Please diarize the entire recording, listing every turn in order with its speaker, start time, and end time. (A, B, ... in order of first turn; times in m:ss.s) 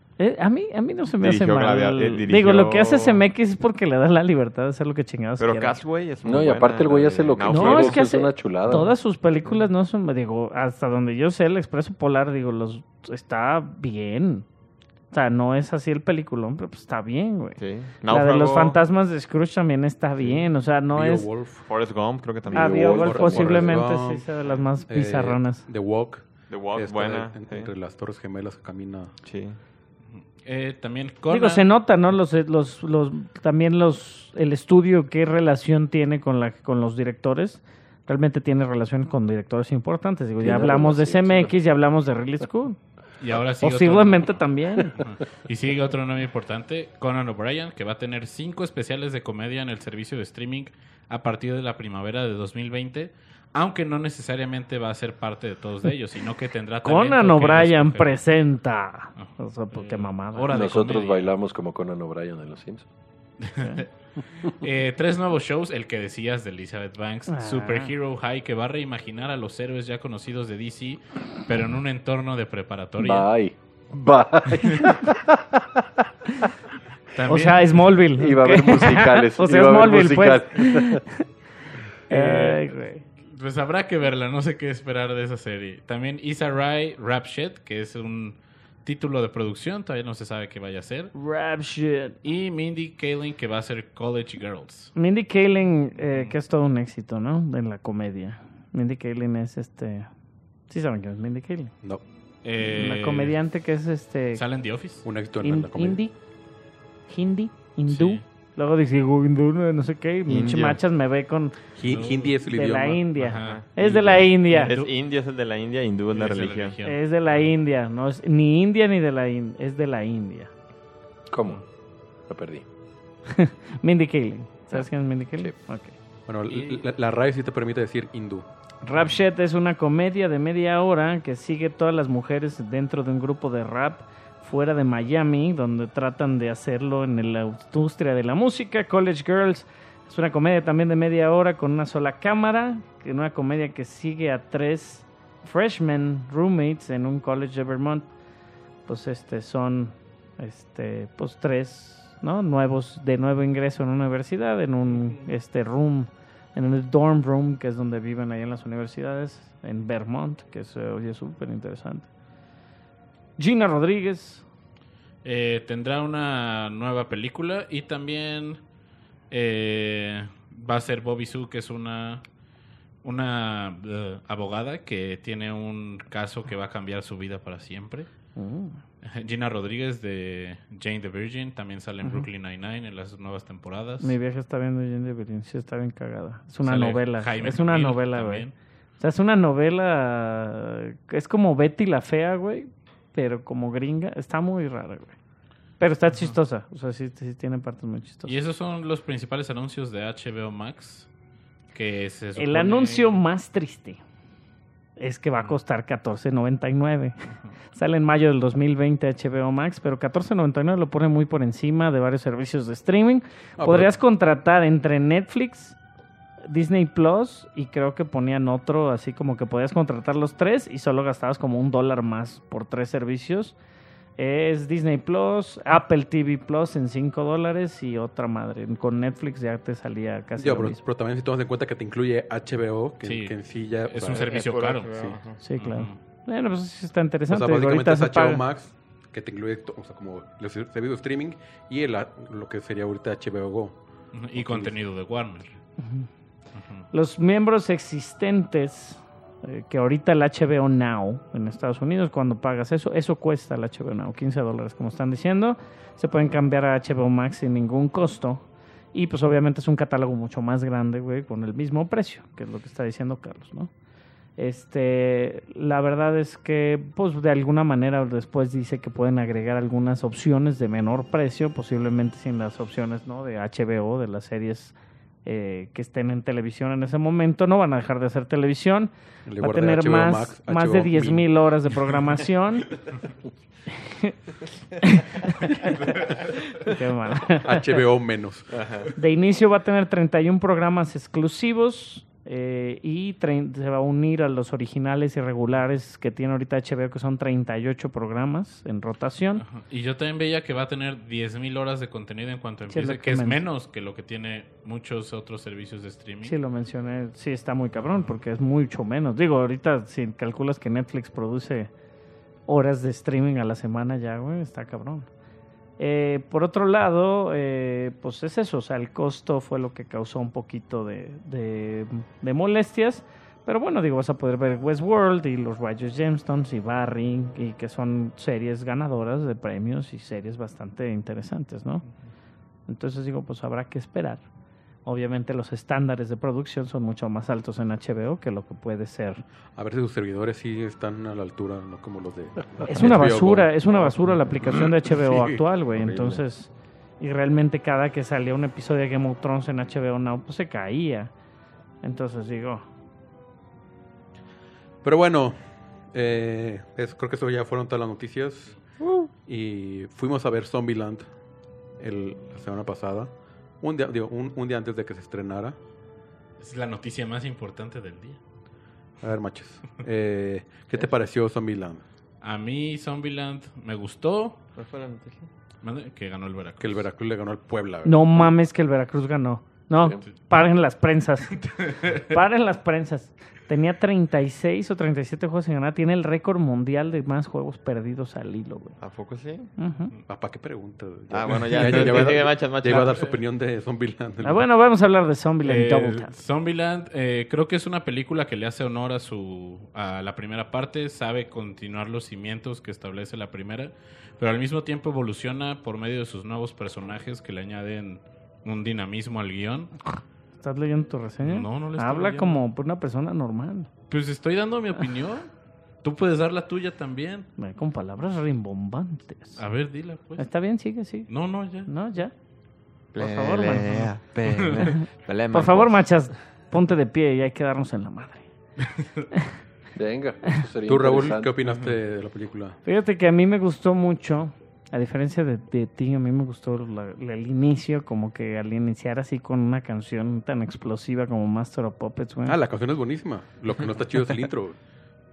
0:00.2-0:05.8 A
0:01.2-0:03.3 B
0:05.4-0:08.1 B
0:06.2-0:08.9 C
0:07.4-0:14.5 A
0:15.1-0:21.3 A
0:17.6-0:18.8 B
0:20.9-0:21.6 D
0:21.6-0:23.6 B
0:22.5-0:23.8 C
0:22.5-0:25.7 A
0:22.8-0:24.2 D
0:24.9-0:29.2 D
0:26.5-0:27.7 B
0:29.2-0:29.6 B
0:30.1-0:31.6 E
0:31.3-0:42.8 A
0:40.4-0:41.5 C
0:43.2-0:58.2 E
0:43.6-0:45.0 A
0:56.8-1:00.6 A
0:59.2-1:01.3 E
1:00.5-1:02.9 C
1:03.4-1:03.9 E
1:03.6-1:03.8 A
1:04.4-1:13.3 E
1:07.3-1:07.9 A
1:13.0-1:16.0 C
1:14.6-1:14.9 E
1:17.1-1:17.9 E
1:17.3-1:21.2 A
1:18.2-1:21.0 C
1:22.1-1:23.0 A
1:22.1-1:31.1 E
1:31.1-1:32.2 A
1:32.2-1:34.9 E
1:35.0-1:40.1 A
1:36.0-1:36.3 E
1:40.7-1:41.7 A
1:42.4-1:43.4 E
1:42.6-1:44.4 A
1:44.4-1:45.1 E
1:45.0-1:46.0 D
1:45.4-1:46.1 A
1:47.1-1:51.6 A
1:47.9-1:48.2 E
1:50.3-1:50.8 B
1:51.8-1:53.0 D
1:51.8-1:52.4 E
1:52.5-1:54.8 A
1:53.2-1:53.6 E
1:53.4-1:56.8 B
1:54.5-1:54.9 E
1:56.1-1:57.5 E
1:56.8-2:00.5 A
2:01.3-2:01.6 C
2:02.3-2:02.6 C
2:03.3-2:06.0 A
2:06.3-2:08.5 D
2:08.8-2:28.1 A
2:28.9-2:42.1 A
2:43.4-2:44.4 A
2:45.2-2:48.6 E
2:49.3-2:52.2 E
2:53.0-2:58.1 E
2:58.4-2:58.8 A
2:59.0-3:04.2 E
3:04.0-3:08.5 A
3:06.6-3:08.5 E
3:09.0-3:15.2 A
3:15.8-3:18.4 A
3:18.3-3:21.1 E
3:21.7-3:23.2 E
3:22.4-3:24.0 A
3:25.0-3:27.2 A
3:27.7-3:35.8 A
3:33.6-3:34.0 D
3:36.5-3:43.6 A
3:44.2-3:50.8 A
3:50.4-3:55.2 D
3:53.0-3:53.4 E
3:53.9-3:56.0 E
3:54.1-3:55.4 B
3:55.4-3:58.4 A
3:57.3-4:03.8 D
4:04.1-4:05.6 E
4:04.4-4:04.7 D
4:05.8-4:06.1 A
4:06.6-4:06.8 E
4:06.9-4:18.4 A
4:18.9-4:23.7 A
4:24.4-4:42.7 A
4:39.3-4:41.3 D
4:43.7-4:44.2 A
4:44.8-4:45.6 A
4:46.6-4:47.8 A
4:47.4-4:48.6 D
4:48.5-4:48.9 B
4:49.0-4:59.4 A
4:59.4-5:06.4 E
5:02.7-5:03.4 A
5:06.2-5:11.7 A
5:12.5-5:15.1 A
5:15.8-5:31.8 A
5:32.7-5:34.2 A
5:34.8-5:39.2 A
5:39.6-5:45.4 D
5:42.6-5:51.1 A
5:51.8-5:52.6 A
5:54.8-5:55.4 D
5:55.9-5:58.6 D
5:59.2-6:01.1 D
6:01.8-6:05.6 D
6:06.4-6:08.2 E
6:09.0-6:11.8 D
6:12.2-6:14.4 E
6:14.6-6:15.3 B
6:15.6-6:16.9 E
6:16.6-6:18.4 D
6:17.8-6:28.8 A
6:21.4-6:22.0 E
6:28.8-6:29.5 B
6:29.6-6:29.9 A
6:30.1-6:34.4 D
6:31.1-6:33.1 B
6:34.2-6:36.1 A
6:35.4-6:49.7 E
6:50.4-6:53.7 A
6:51.2-6:52.4 E
6:53.9-6:55.3 E
6:55.8-6:57.3 E
6:57.4-6:59.4 A
6:59.4-7:00.3 E
7:00.2-7:01.1 A
7:01.1-7:01.7 E
7:01.6-7:02.1 A
7:02.9-7:05.9 B
7:03.0-7:03.9 A
7:04.4-7:04.7 E
7:04.6-7:08.2 A
7:08.7-7:09.1 E
7:09.8-7:11.3 C
7:10.7-7:12.6 D
7:12.6-7:22.4 A
7:22.3-7:24.6 D